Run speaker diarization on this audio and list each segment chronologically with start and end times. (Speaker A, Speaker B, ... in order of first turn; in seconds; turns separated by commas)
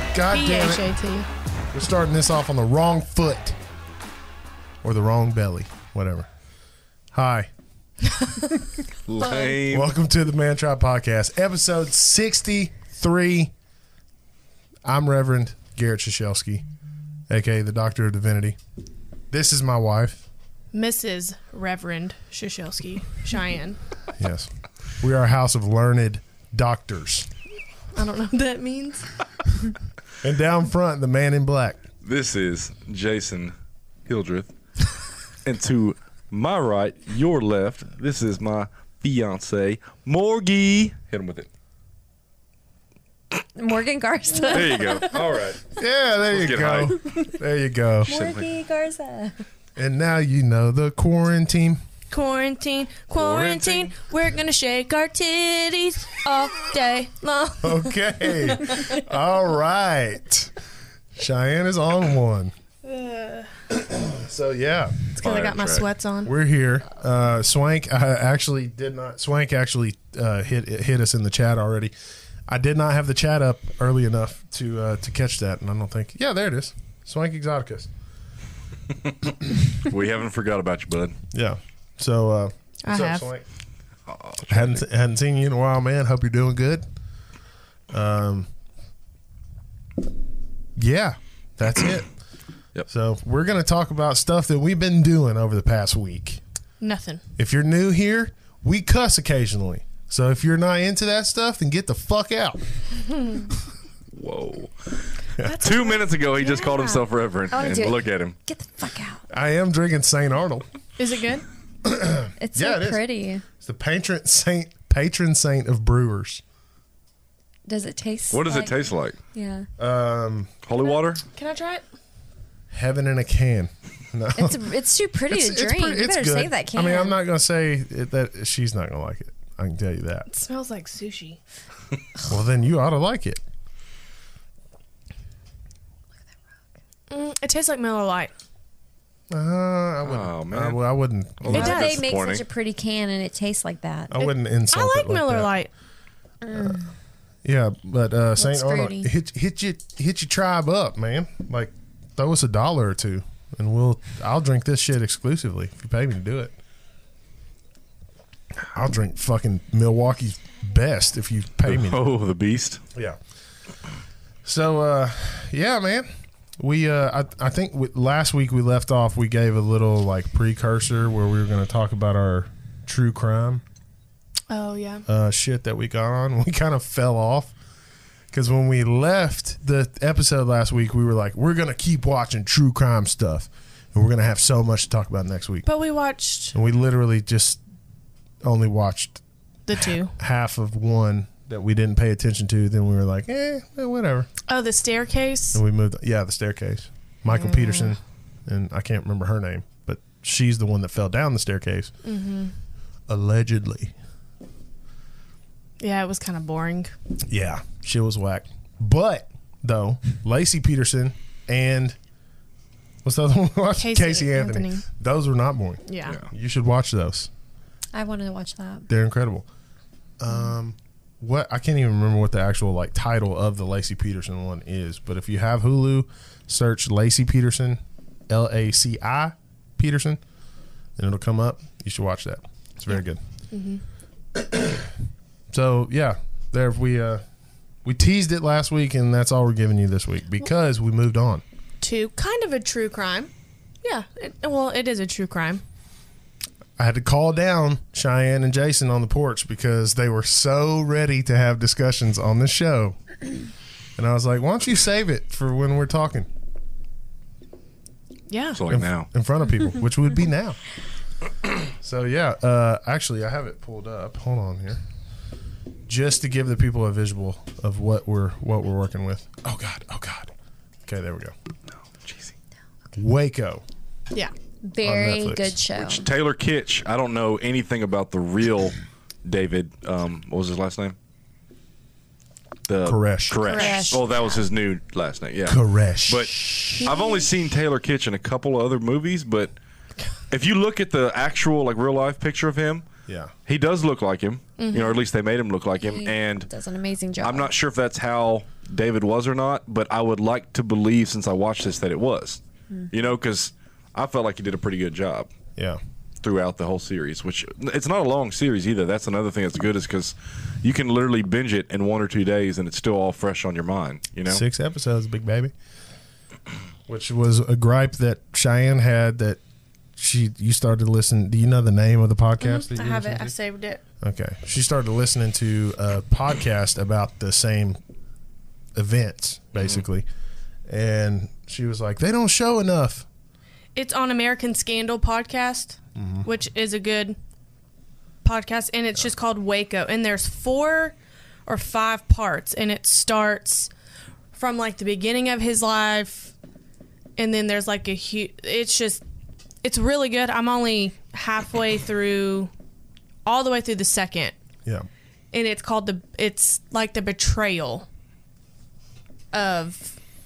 Speaker A: 0.1-0.9, Speaker B: 0.3-1.3, Speaker A: 1.7-3.5, Speaker A: 4.8-6.3, Speaker A: 7.1-7.5, Speaker B: 8.2-8.5, Speaker C: 9.1-9.9, Speaker D: 9.2-9.5, Speaker A: 9.7-13.5, Speaker A: 14.8-16.6, Speaker A: 17.3-18.6, Speaker A: 19.3-20.2, Speaker B: 20.7-23.8, Speaker A: 24.2-27.3, Speaker B: 27.9-29.1, Speaker A: 30.2-31.8, Speaker C: 32.0-33.5, Speaker C: 34.0-34.5, Speaker C: 35.4-41.5, Speaker D: 43.5-45.1, Speaker C: 44.5-45.6, Speaker A: 45.8-48.1, Speaker C: 46.3-47.1, Speaker D: 48.0-49.4, Speaker C: 48.1-48.5, Speaker A: 49.8-51.8, Speaker B: 52.1-58.9, Speaker C: 53.1-53.9, Speaker A: 57.6-60.5, Speaker A: 61.1-62.5, Speaker B: 62.8-63.5, Speaker A: 63.7-65.0, Speaker B: 65.1-66.3, Speaker C: 65.2-65.9, Speaker A: 66.2-71.9, Speaker A: 72.5-77.9, Speaker C: 79.2-81.2, Speaker A: 81.3-83.4, Speaker B: 82.8-83.2, Speaker C: 84.1-84.7, Speaker A: 84.5-86.8, Speaker A: 87.9-88.5, Speaker A: 90.8-92.1, Speaker A: 92.9-96.4, Speaker B: 96.8-97.2, Speaker A: 97.4-102.6, Speaker B: 103.1-103.5, Speaker C: 104.1-108.3, Speaker B: 105.4-107.1, Speaker D: 107.5-109.2, Speaker A: 109.3-110.6, Speaker B: 111.0-111.5, Speaker A: 111.8-113.0, Speaker D: 112.4-113.4, Speaker A: 113.6-116.4, Speaker D: 117.7-118.8, Speaker C: 118.3-119.2, Speaker D: 119.3-119.7, Speaker A: 119.8-120.5, Speaker C: 120.6-121.2, Speaker B: 120.8-121.8, Speaker A: 122.7-124.6, Speaker D: 124.3-127.2, Speaker A: 125.3-130.3, Speaker B: 130.3-131.4, Speaker A: 132.2-133.4, Speaker B: 137.1-138.3, Speaker A: 139.3-141.8, Speaker C: 140.0-140.8, Speaker C: 141.4-142.4, Speaker D: 141.5-144.3, Speaker B: 141.5-142.0, Speaker A: 144.1-145.5, Speaker B: 144.7-145.7, Speaker D: 146.4-146.9, Speaker A: 147.4-156.5, Speaker D: 148.4-149.1, Speaker A: 158.6-162.0, Speaker C: 161.7-162.8, Speaker A: 164.4-166.1, Speaker A: 166.6-173.6, Speaker B: 174.5-175.0, Speaker A: 175.1-177.5, Speaker A: 178.3-185.7, Speaker B: 185.6-186.6, Speaker A: 186.5-187.6, Speaker A: 188.4-189.2, Speaker B: 189.7-190.1, Speaker A: 189.7-194.3, Speaker B: 194.4-195.6, Speaker A: 195.5-201.9, Speaker B: 197.3-197.9, Speaker B: 202.0-202.5, Speaker A: 203.1-203.9, Speaker B: 205.8-206.9, Speaker A: 207.3-211.9, Speaker A: 213.0-217.3, Speaker B: 213.8-214.8, Speaker B: 215.9-216.2, Speaker D: 217.9-218.9, Speaker A: 218.9-219.4, Speaker A: 220.2-230.2, Speaker A: 231.0-233.2, Speaker B: 233.5-233.8, Speaker A: 234.3-234.9, Speaker A: 235.5-237.2, Speaker A: 237.8-241.4, Speaker B: 241.8-243.3, Speaker B: 243.8-245.6, Speaker A: 246.8-253.0, Speaker A: 253.9-256.3, Speaker B: 258.3-258.6, Speaker C: 258.5-259.1, Speaker A: 258.7-260.6, Speaker A: 261.6-264.8, Speaker A: 265.9-270.3, Speaker A: 270.9-271.3, Speaker A: 272.9-273.6, Speaker D: 274.6-276.1, Speaker A: 274.8-275.6, Speaker C: 275.8-280.9, Speaker C: 282.6-289.5, Speaker A: 282.8-283.4, Speaker B: 283.4-283.9, Speaker D: 283.4-284.4, Speaker A: 285.4-286.8, Speaker D: 286.8-287.2, Speaker C: 290.3-292.9, Speaker A: 293.1-293.3, Speaker C: 293.4-296.5, Speaker B: 294.6-295.0, Speaker D: 295.8-297.5, Speaker C: 297.2-302.4, Speaker C: 302.9-305.3, Speaker C: 306.2-314.4, Speaker A: 314.3-315.5, Speaker A: 316.9-319.4, Speaker A: 320.0-323.3, Speaker B: 322.4-323.8, Speaker A: 324.0-327.8, Speaker A: 328.8-330.1, Speaker A: 330.7-333.1, Speaker B: 333.7-337.2, Speaker A: 335.9-336.3, Speaker B: 338.2-340.9, Speaker B: 341.4-343.7, Speaker B: 344.3-346.3, Speaker B: 347.2-349.0, Speaker B: 349.6-352.5, Speaker B: 353.2-354.3, Speaker B: 355.3-357.9, Speaker B: 359.3-360.0